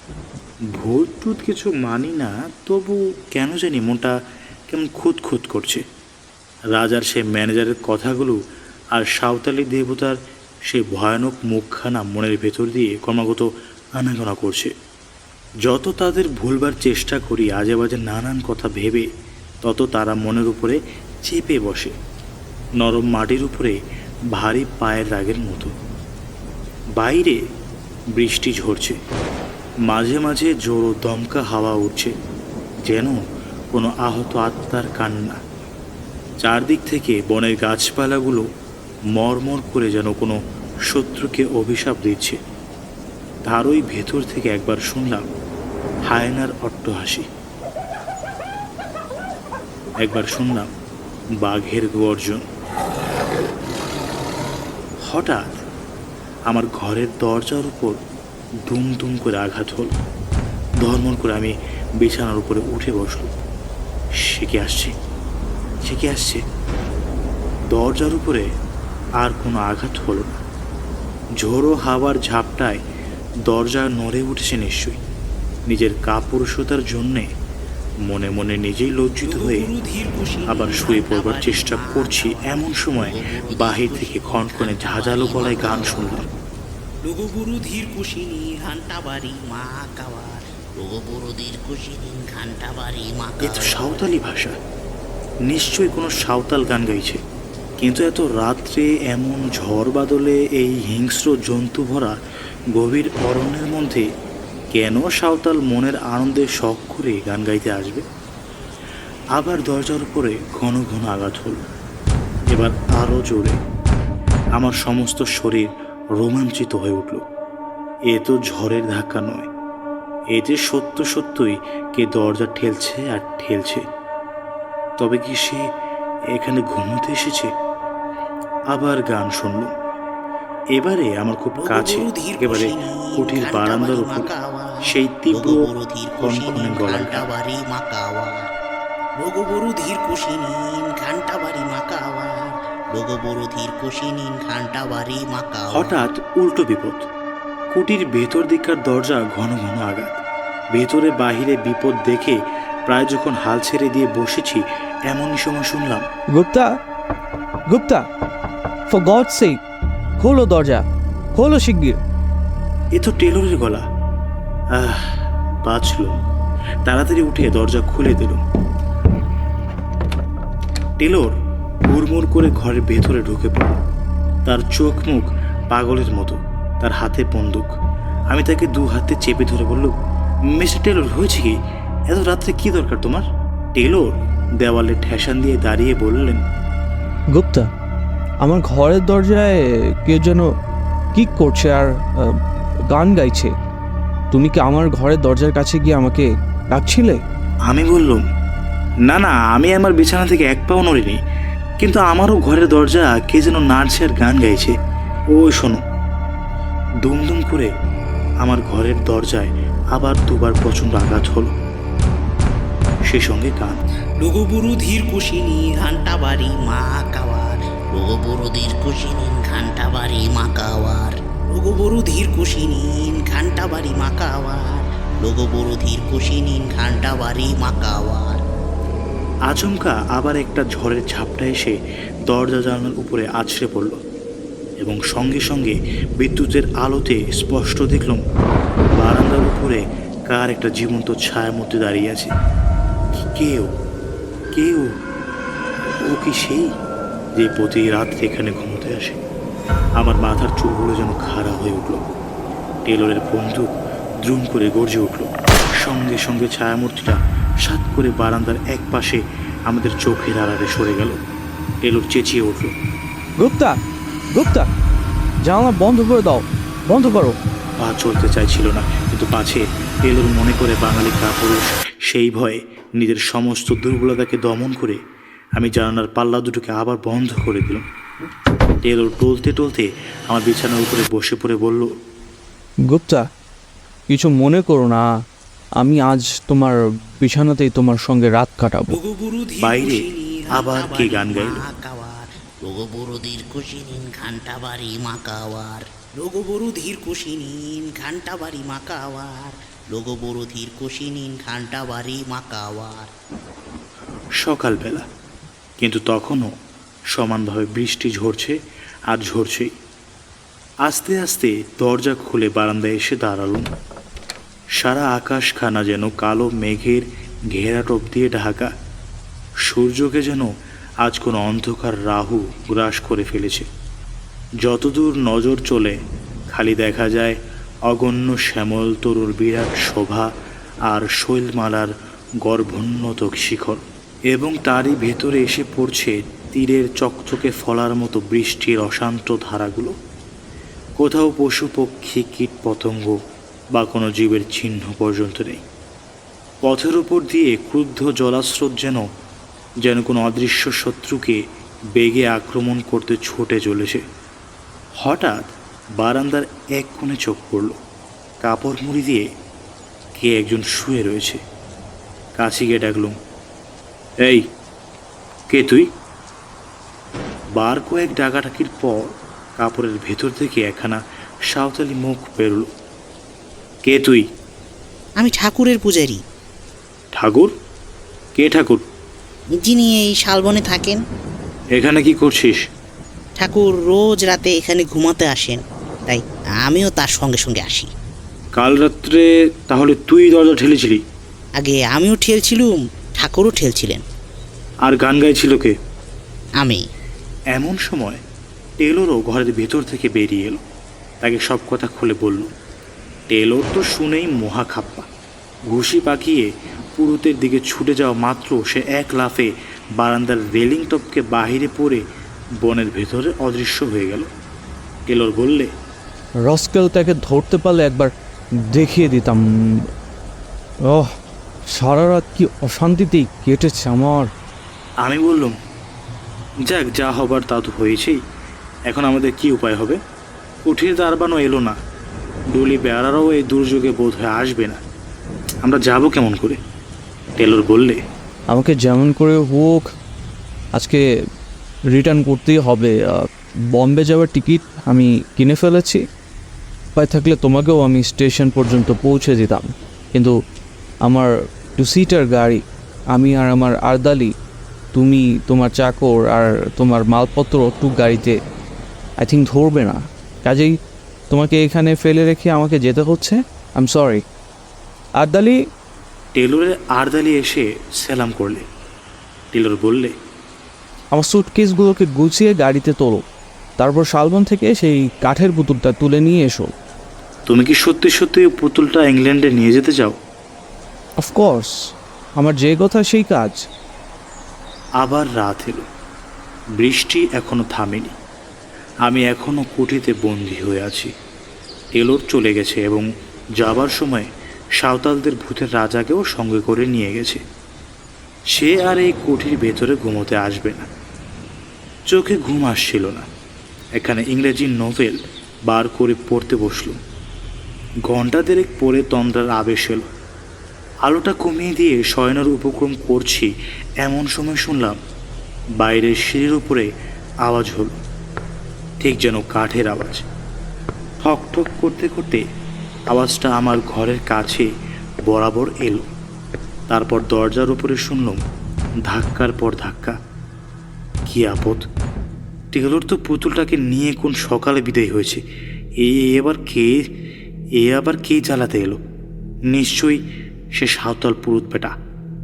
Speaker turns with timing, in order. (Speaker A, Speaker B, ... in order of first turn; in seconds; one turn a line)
Speaker A: 0.7-4.2
Speaker A: 4.7-5.8
Speaker A: 6.7-8.4
Speaker A: 8.9-14.7
Speaker A: 15.7-19.1
Speaker A: 19.6-21.9
Speaker A: 22.8-23.8
Speaker A: 24.3-25.7
Speaker A: 27.0-27.4
Speaker A: 28.1-29.0
Speaker A: 29.9-32.1
Speaker A: 32.8-35.4
Speaker A: 36.4-38.5
Speaker A: 39.1-42.4
Speaker A: 43.5-45.3
Speaker A: 46.1-47.3
Speaker A: 50.0-50.7
Speaker A: 51.4-52.5
Speaker A: 55.0-55.6
Speaker A: 56.5-58.0
Speaker A: 58.6-60.0
Speaker A: 60.8-63.3
Speaker A: 64.2-64.9
Speaker A: 65.8-66.4
Speaker A: 67.7-68.5
Speaker A: 69.2-70.4
Speaker A: 71.4-72.8
Speaker A: 73.5-75.0
Speaker A: 75.7-77.3
Speaker A: 78.1-79.7
Speaker B: 79.2-86.2
Speaker A: 80.5-86.2
Speaker B: 87.0-94.0
Speaker A: 93.4-94.6
Speaker A: 95.5-97.2
Speaker A: 97.8-102.2
Speaker A: 102.7-104.0
Speaker A: 104.7-108.0
Speaker A: 109.3-111.6
Speaker A: 112.5-113.6
Speaker A: 114.6-117.2
Speaker A: 118.1-119.5
Speaker A: 120.3-123.8
Speaker A: 125.0-125.7
Speaker A: 126.3-127.5
Speaker A: 128.7-129.7
Speaker A: 130.7-134.3
Speaker B: 131.6-138.5
Speaker A: 134.8-137.2
Speaker B: 139.2-146.0
Speaker A: 145.7-147.1
Speaker A: 147.7-150.2
Speaker A: 150.7-156.1
Speaker C: 156.3-156.7
Speaker C: 157.7-158.0
Speaker C: 158.9-159.6
Speaker C: 160.2-162.0
Speaker A: 162.9-163.8
Speaker A: 164.7-166.2
Speaker A: 166.8-168.4
Speaker A: 171.0-171.3
Speaker A: 171.9-173.8
Speaker A: 174.4-177.7
Speaker A: 178.3-179.9
Speaker A: 180.5-181.6
Speaker A: 182.1-186.4
Speaker C: 187.3-187.7
Speaker C: 188.4-190.5
Speaker C: 191.1-192.4
Speaker C: 192.9-193.5
Speaker C: 194.3-197.2
Speaker A: 197.7-198.2
Speaker A: 199.1-201.2
Speaker A: 201.8-204.7
Speaker A: 205.3-205.8
Speaker A: 207.0-207.7
Speaker A: 208.4-211.5
Speaker A: 213.1-213.8
Speaker B: 214.2-228.4
Speaker A: 229.5-234.0
Speaker A: 234.8-238.2
Speaker A: 239.0-242.3
Speaker A: 243.2-243.7
Speaker A: 244.5-244.9
Speaker A: 246.0-246.7
Speaker A: 247.3-249.2
Speaker A: 250.0-252.0
Speaker A: 252.8-261.2
Speaker A: 261.8-262.7
Speaker C: 263.4-263.8
Speaker C: 264.3-264.7
Speaker C: 265.4-267.4
Speaker A: 267.8-275.0
Speaker A: 275.6-277.8
Speaker A: 278.8-281.9
Speaker C: 282.9-283.2
Speaker C: 284.1-285.0
Speaker C: 285.8-288.9
Speaker B: 288.9-303.1
Speaker A: 289.6-291.6
Speaker A: 304.4-305.1
Speaker A: 305.8-306.5
Speaker A: 307.1-308.6
Speaker A: 309.1-309.7
Speaker A: 310.8-313.7
Speaker A: 314.8-318.7
Speaker A: 319.6-320.5
Speaker A: 321.0-323.7
Speaker A: 324.6-326.0
Speaker A: 326.5-327.4
Speaker A: 327.9-330.3
Speaker A: 330.9-339.9
Speaker A: 341.0-343.2
Speaker A: 343.7-345.6
Speaker A: 346.6-349.1
Speaker A: 349.8-351.4
Speaker A: 351.9-354.0
Speaker A: 355.0-357.8
Speaker A: 358.4-359.3
Speaker A: 360.1-361.4
Speaker A: 362.4-363.1
Speaker A: 365.5-365.9
Speaker A: 367.5-372.7
Speaker A: 373.9-374.2
Speaker B: 375.2-376.2
Speaker A: 377.1-377.5
Speaker A: 378.4-378.8
Speaker B: 379.6-381.0
Speaker A: 381.8-382.6
Speaker B: 383.4-387.9
Speaker A: 388.6-391.0
Speaker B: 391.6-394.0
Speaker A: 394.8-395.7
Speaker A: 397.5-398.2
Speaker A: 398.8-400.6
Speaker A: 401.2-402.5
Speaker A: 403.3-405.1
Speaker A: 405.7-412.0
Speaker A: 412.6-414.3
Speaker A: 415.1-415.7
Speaker C: 416.5-418.1
Speaker C: 418.7-419.8
Speaker C: 420.9-421.1
Speaker C: 421.7-424.3
Speaker A: 425.0-425.6
Speaker A: 426.6-428.2
Speaker A: 428.9-430.0
Speaker A: 430.6-431.8
Speaker A: 432.5-434.8
Speaker A: 435.6-436.6
Speaker A: 437.4-438.0
Speaker C: 438.5-439.9
Speaker C: 440.7-441.0
Speaker C: 441.9-446.0
Speaker C: 446.9-450.3
Speaker C: 451.0-452.6
Speaker C: 453.1-454.3
Speaker C: 454.9-458.4
Speaker C: 459.2-460.8
Speaker C: 461.3-464.2
Speaker C: 465.2-465.6
Speaker A: 466.3-468.6
Speaker A: 469.5-470.1
Speaker C: 471.1-473.2
Speaker C: 473.8-476.8
Speaker A: 477.5-480.2
Speaker C: 481.2-481.7
Speaker C: 482.4-483.6
Speaker A: 485.0-485.9
Speaker A: 486.8-488.1
Speaker A: 489.0-491.1
Speaker A: 491.9-493.1
Speaker A: 493.6-497.4
Speaker A: 498.5-500.9
Speaker A: 502.1-503.3
Speaker A: 503.9-505.2
Speaker A: 505.7-507.0
Speaker A: 508.1-510.1
Speaker A: 511.0-513.5
Speaker A: 514.0-515.0
Speaker A: 515.8-516.9
Speaker A: 517.4-517.9
Speaker A: 519.0-520.2
Speaker A: 521.2-522.4
Speaker A: 523.1-524.7
Speaker A: 525.3-526.1
Speaker A: 526.9-528.4
Speaker A: 529.1-530.2
Speaker A: 531.2-531.8
Speaker A: 532.7-535.4
Speaker A: 536.0-537.0
Speaker A: 537.8-539.0
Speaker A: 539.7-540.2
Speaker A: 540.8-541.9